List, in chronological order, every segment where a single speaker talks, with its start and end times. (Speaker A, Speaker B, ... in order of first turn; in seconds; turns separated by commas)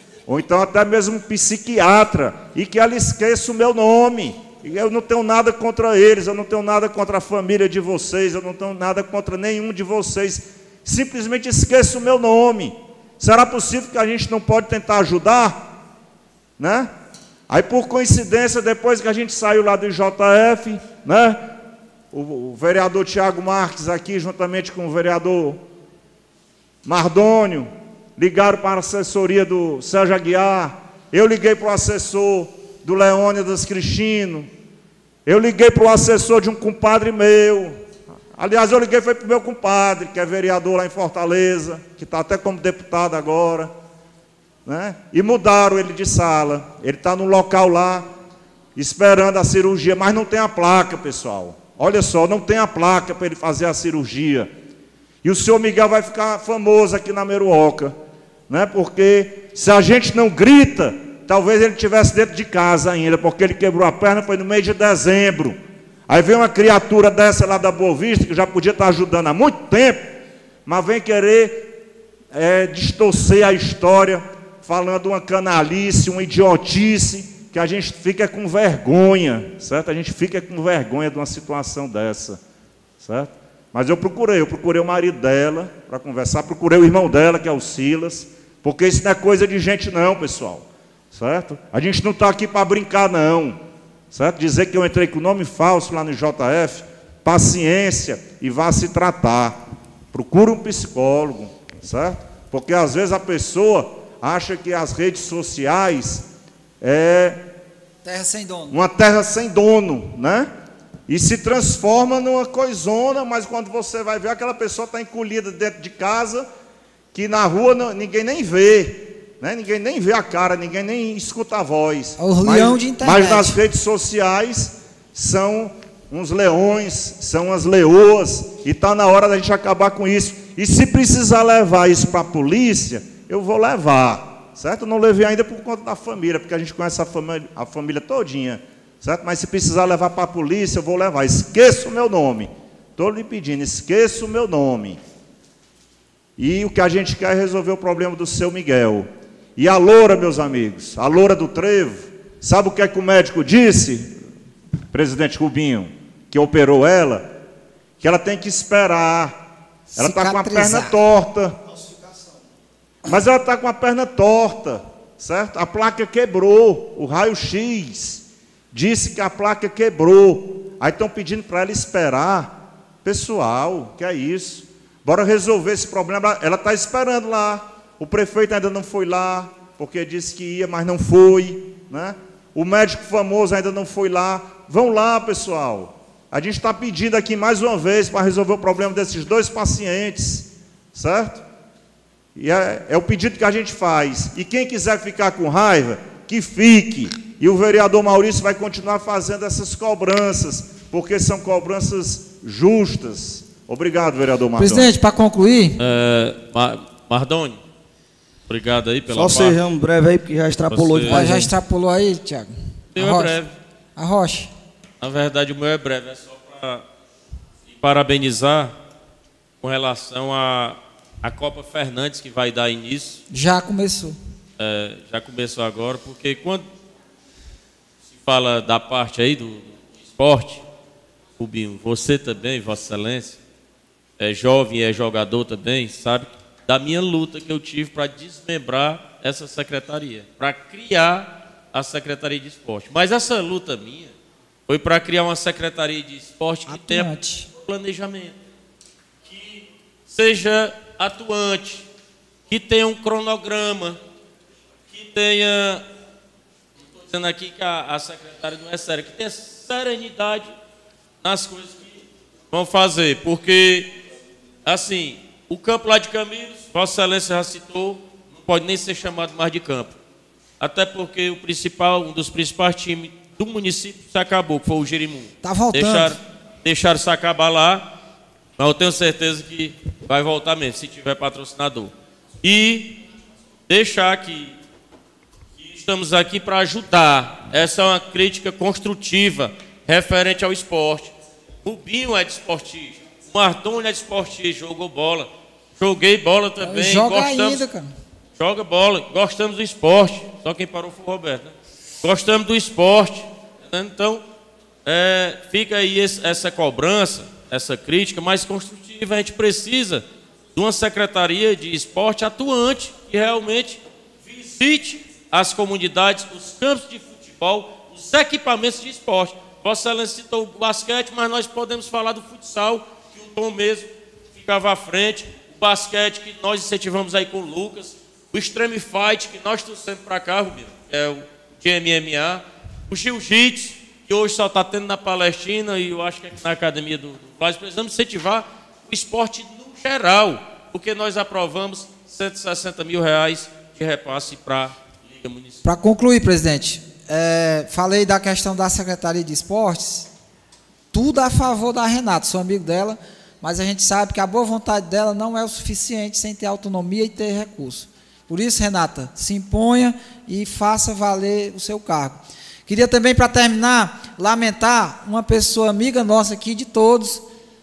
Speaker A: 0.3-15.7, Speaker A: 16.6-16.9, Speaker A: 17.5-21.5, Speaker A: 22.1-25.6, Speaker A: 26.9-34.5, Speaker A: 35.3-37.8, Speaker A: 38.4-43.7, Speaker A: 44.7-48.1, Speaker A: 48.8-54.5, Speaker A: 55.2-58.0, Speaker A: 58.5-70.2, Speaker A: 70.7-71.7, Speaker A: 72.3-82.4, Speaker A: 83.0-99.6, Speaker A: 100.1-106.2, Speaker A: 106.8-107.4, Speaker B: 108.0-108.8, Speaker A: 108.7-110.5, Speaker A: 111.1-116.5, Speaker A: 117.1-145.0, Speaker B: 122.2-123.6, Speaker A: 146.4-154.2, Speaker A: 154.9-157.3, Speaker A: 158.0-159.4, Speaker B: 160.0-161.0, Speaker A: 160.0-161.6, Speaker C: 161.8-162.4, Speaker A: 163.1-191.4, Speaker A: 192.3-204.9, Speaker B: 204.6-205.8, Speaker D: 205.8-207.6, Speaker D: 208.5-209.6, Speaker C: 209.1-211.5, Speaker D: 210.7-211.2, Speaker B: 211.1-213.4, Speaker D: 212.9-213.6, Speaker B: 214.0-214.5, Speaker D: 215.0-216.8, Speaker D: 217.7-218.7, Speaker D: 219.6-223.2, Speaker B: 223.3-224.2, Speaker D: 224.6-226.7, Speaker D: 228.1-230.6, Speaker D: 231.4-233.4, Speaker D: 234.2-244.1, Speaker D: 244.7-247.1, Speaker B: 246.7-247.5, Speaker D: 247.6-248.4, Speaker D: 249.2-251.9, Speaker D: 252.5-254.0, Speaker D: 254.9-255.8, Speaker D: 256.8-260.5, Speaker D: 261.2-263.9, Speaker D: 264.6-270.0, Speaker D: 270.6-277.9, Speaker B: 275.4-276.2, Speaker D: 278.6-283.0, Speaker D: 283.7-284.6, Speaker D: 285.6-291.1, Speaker D: 291.6-297.6, Speaker B: 296.6-297.9, Speaker D: 298.4-304.2, Speaker D: 304.9-310.0, Speaker D: 310.6-345.6, Speaker B: 345.6-350.1, Speaker B: 350.9-367.2